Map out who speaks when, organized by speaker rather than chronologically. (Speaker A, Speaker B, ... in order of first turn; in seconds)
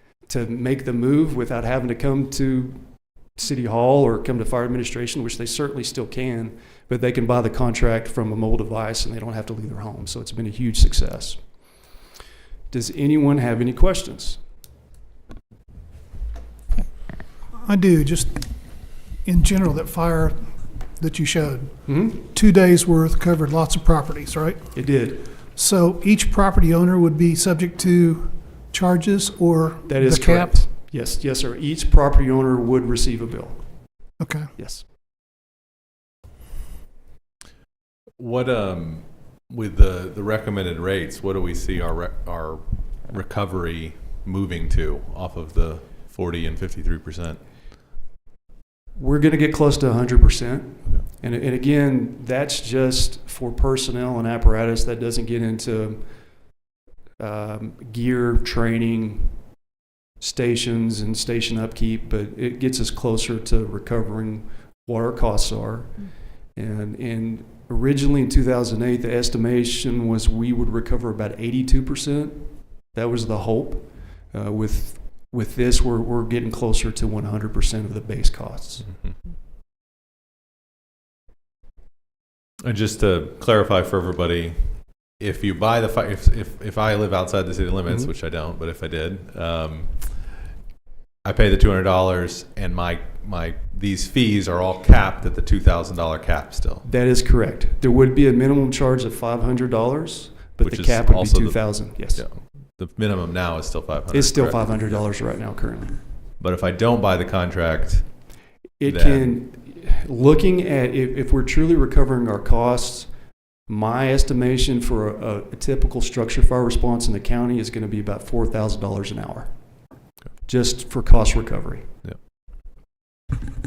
Speaker A: 0.2-11.6, 12.7-14.4, 21.9-22.2, 24.7-25.3, 29.9-33.6, 34.6-34.9, 49.0-56.1, 57.2-59.5, 60.2-78.9, 96.8-102.2, 104.1-106.0, 108.8-113.2, 113.7-119.5, 120.4-121.9
Speaker B: 17.6-18.6, 19.1-24.9, 25.6-30.7, 34.2-34.5
Speaker C: 38.2-47.4, 82.6-90.4, 91.2-96.9, 100.6-105.0, 106.4-108.2, 108.8-109.3